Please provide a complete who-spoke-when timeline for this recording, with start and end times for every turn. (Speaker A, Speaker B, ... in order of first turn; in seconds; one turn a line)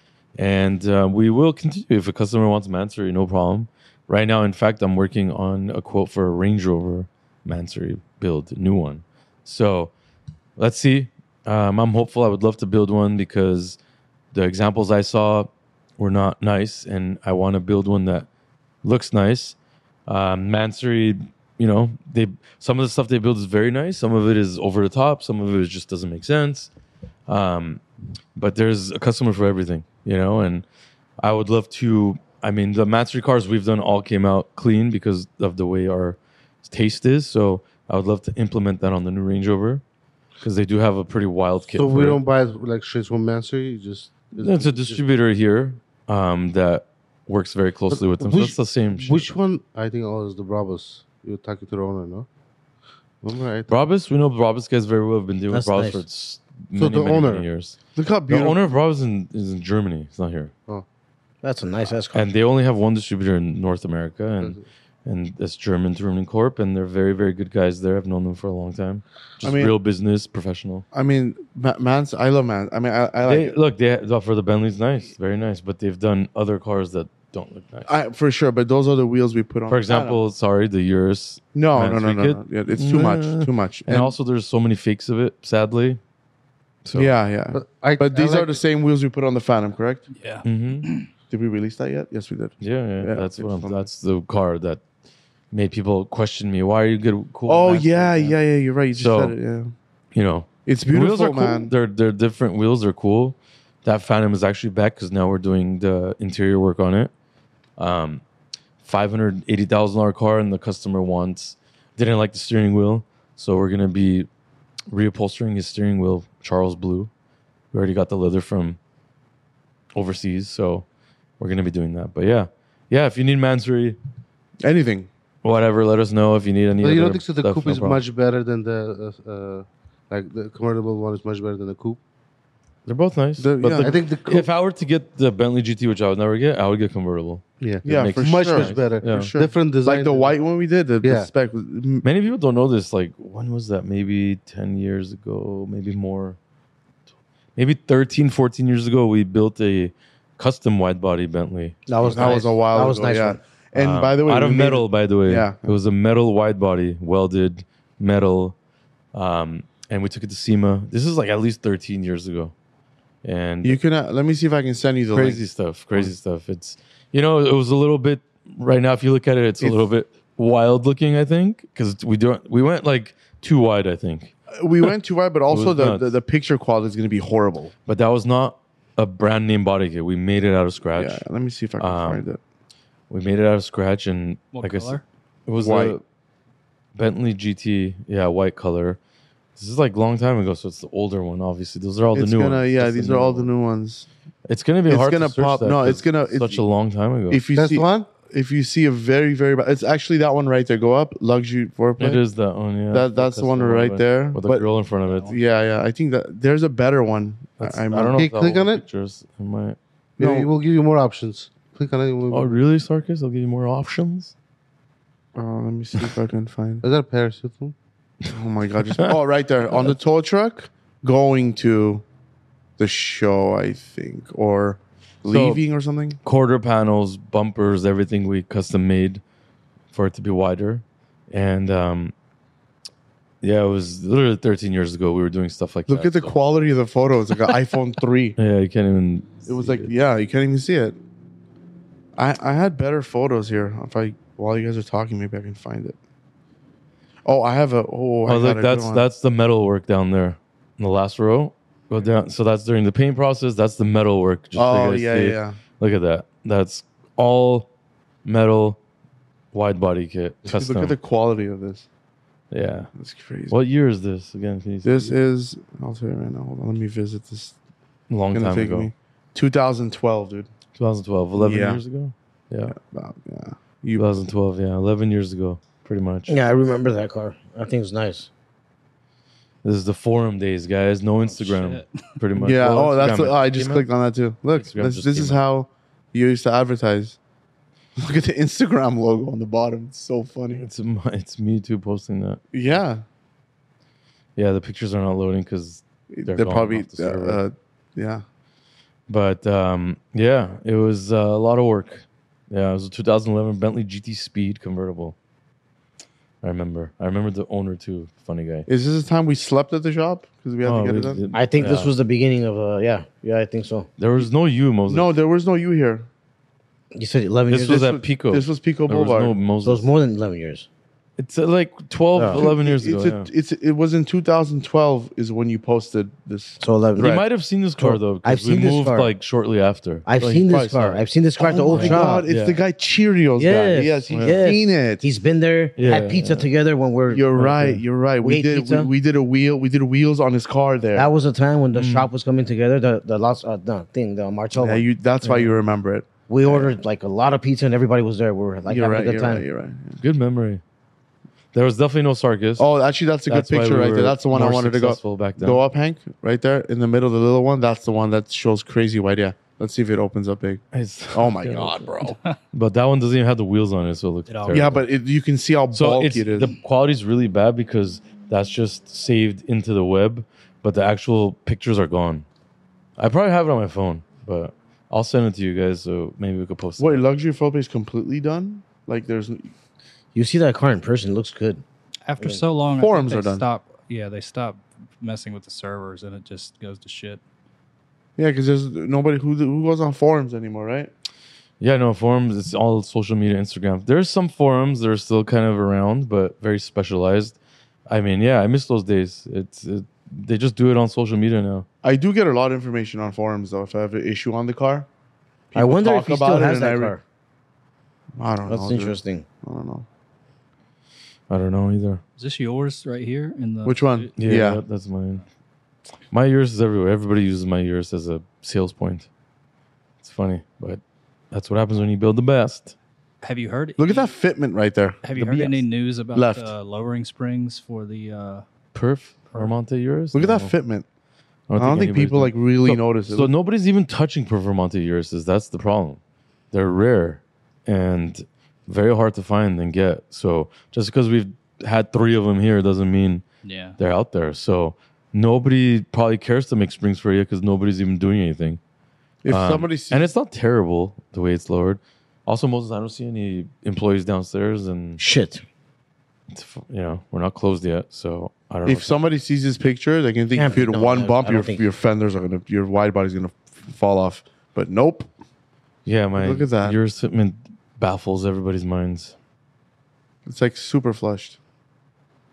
Speaker A: 0.4-9.9
Speaker A: 10.6-13.8
Speaker A: 14.3-18.3
Speaker A: 18.8-19.6
Speaker A: 20.1-26.7
Speaker A: 27.3-27.8
Speaker A: 28.4-30.6
Speaker A: 31.2-39.8
Speaker A: 40.4-42.2
Speaker B: 41.7-45.0
Speaker A: 44.4-49.3
Speaker B: 47.9-52.3
Speaker B: 53.2-53.8
Speaker A: 53.7-57.8
Speaker C: 55.5-56.0
Speaker B: 56.8-57.5
Speaker D: 58.0-58.6
Speaker A: 58.3-60.5
Speaker C: 61.4-62.3
Speaker A: 62.1-70.8
Speaker D: 69.4-69.8
Speaker D: 70.9-73.6
Speaker A: 73.2-77.9
Speaker D: 77.9-80.2
Speaker A: 79.7-86.0
Speaker D: 81.5-84.1
Speaker A: 86.8-87.1
Speaker D: 86.9-90.0
Speaker B: 87.5-88.6
Speaker E: 90.1-91.1
Speaker A: 90.4-90.9
Speaker D: 91.3-93.8
Speaker A: 92.6-94.8
Speaker A: 95.5-98.4
Speaker D: 97.5-99.7
Speaker A: 98.9-99.4
Speaker A: 100.1-107.1
Speaker D: 100.7-101.7
Speaker A: 107.8-108.2
Speaker A: 108.8-114.3
Speaker A: 114.9-117.1
Speaker A: 117.7-118.8
Speaker A: 119.9-120.8
Speaker A: 121.4-124.0
Speaker D: 124.6-125.1
Speaker A: 125.4-128.0
Speaker B: 126.8-132.0
Speaker A: 132.9-139.3
Speaker D: 133.4-134.0
Speaker B: 133.8-134.5
Speaker B: 137.6-140.4
Speaker D: 137.8-142.1
Speaker B: 141.0-141.3
Speaker A: 142.0-146.4
Speaker A: 147.6-152.4
Speaker C: 151.9-153.4
Speaker D: 152.0-155.7
Speaker A: 153.8-158.6
Speaker A: 159.1-162.5
Speaker A: 163.2-163.8
Speaker D: 163.6-166.1
Speaker A: 165.1-174.3
Speaker D: 174.6-177.7
Speaker A: 175.5-176.1
Speaker A: 177.9-181.2
Speaker D: 180.9-182.4
Speaker A: 181.8-182.2
Speaker A: 183.1-186.0
Speaker E: 184.5-185.0
Speaker D: 185.6-186.0
Speaker A: 186.9-189.0
Speaker A: 189.6-193.5
Speaker D: 192.1-194.1
Speaker A: 194.5-197.4
Speaker D: 194.9-196.6
Speaker D: 197.3-202.2
Speaker B: 197.6-198.1
Speaker A: 202.0-205.3
Speaker D: 202.9-204.7
Speaker E: 205.1-205.4
Speaker D: 205.2-208.3
Speaker A: 207.6-209.8
Speaker B: 207.9-208.8
Speaker B: 210.2-212.6
Speaker D: 210.2-210.5
Speaker A: 212.3-214.3
Speaker D: 215.4-216.8
Speaker B: 216.8-217.7
Speaker D: 218.3-222.0
Speaker A: 218.9-219.2
Speaker D: 222.8-226.2
Speaker A: 225.3-225.6
Speaker A: 226.2-229.2
Speaker A: 229.9-232.1
Speaker A: 233.4-236.3
Speaker D: 235.9-238.4
Speaker A: 238.4-239.9
Speaker D: 239.5-241.0
Speaker D: 242.2-246.0
Speaker D: 247.2-249.1
Speaker A: 248.3-257.7
Speaker D: 254.6-255.6
Speaker A: 258.2-258.8
Speaker A: 259.5-261.0
Speaker D: 260.4-261.9
Speaker A: 262.5-262.9
Speaker D: 263.0-263.6
Speaker A: 263.5-265.1
Speaker D: 264.8-267.6
Speaker A: 268.1-268.9
Speaker D: 268.3-270.5
Speaker A: 270.8-272.8
Speaker D: 271.4-271.8
Speaker D: 272.7-274.1
Speaker A: 274.0-276.4
Speaker C: 276.3-278.3
Speaker A: 279.6-283.9
Speaker E: 281.2-282.0
Speaker D: 282.4-287.2
Speaker A: 284.5-285.4
Speaker D: 288.0-290.6
Speaker A: 290.6-292.4
Speaker D: 292.5-293.0
Speaker A: 294.4-297.4
Speaker D: 296.1-298.2
Speaker A: 299.1-305.1
Speaker A: 306.4-308.7
Speaker D: 308.7-311.2
Speaker A: 310.6-311.9
Speaker C: 311.3-313.9
Speaker A: 314.0-315.1
Speaker D: 314.9-316.1
Speaker C: 316.9-317.9
Speaker A: 317.5-319.9
Speaker D: 317.6-319.4
Speaker C: 319.6-320.7
Speaker A: 321.2-323.3
Speaker C: 322.2-322.4
Speaker D: 322.3-327.2
Speaker C: 326.6-327.2
Speaker A: 327.0-331.0
Speaker C: 327.8-329.1
Speaker C: 330.1-332.2
Speaker D: 330.7-335.0
Speaker A: 331.7-332.6
Speaker C: 333.4-337.5
Speaker A: 334.1-334.4
Speaker A: 335.8-336.5
Speaker D: 337.1-341.1
Speaker A: 337.4-337.8
Speaker C: 338.2-338.9
Speaker C: 340.9-344.9
Speaker A: 341.7-342.1
Speaker D: 344.6-346.8
Speaker A: 345.2-345.5
Speaker C: 346.3-349.4
Speaker D: 348.7-350.0
Speaker A: 350.0-350.6
Speaker A: 351.5-352.7
Speaker D: 352.6-362.2
Speaker A: 353.3-355.6
Speaker A: 360.7-364.8
Speaker E: 364.3-364.7
Speaker D: 364.5-366.5
Speaker A: 365.7-372.2
Speaker A: 373.0-377.0
Speaker D: 376.8-379.5
Speaker C: 380.1-381.6
Speaker E: 382.1-387.2
Speaker D: 382.8-383.4
Speaker D: 388.2-390.9
Speaker A: 391.6-401.7
Speaker D: 401.8-404.9
Speaker D: 405.5-406.9
Speaker C: 405.5-407.0
Speaker D: 408.2-409.9
Speaker C: 408.5-409.3
Speaker A: 411.3-412.0
Speaker E: 412.2-414.1
Speaker D: 413.6-414.6
Speaker A: 414.2-415.2
Speaker A: 416.1-419.1
Speaker A: 420.0-422.8
Speaker E: 423.2-424.1
Speaker D: 423.8-425.0
Speaker E: 425.0-428.4
Speaker A: 425.1-425.6
Speaker D: 426.1-426.5
Speaker A: 428.7-430.5
Speaker D: 430.1-430.9
Speaker A: 431.5-436.0
Speaker D: 431.6-433.3
Speaker A: 436.5-443.2
Speaker E: 443.4-443.8
Speaker A: 443.8-448.6
Speaker D: 449.2-450.1
Speaker A: 449.3-455.0
Speaker C: 455.0-455.4
Speaker A: 456.3-458.9
Speaker D: 458.6-465.1
Speaker C: 460.3-461.6
Speaker A: 465.9-469.1
Speaker D: 466.2-466.8
Speaker D: 470.3-471.4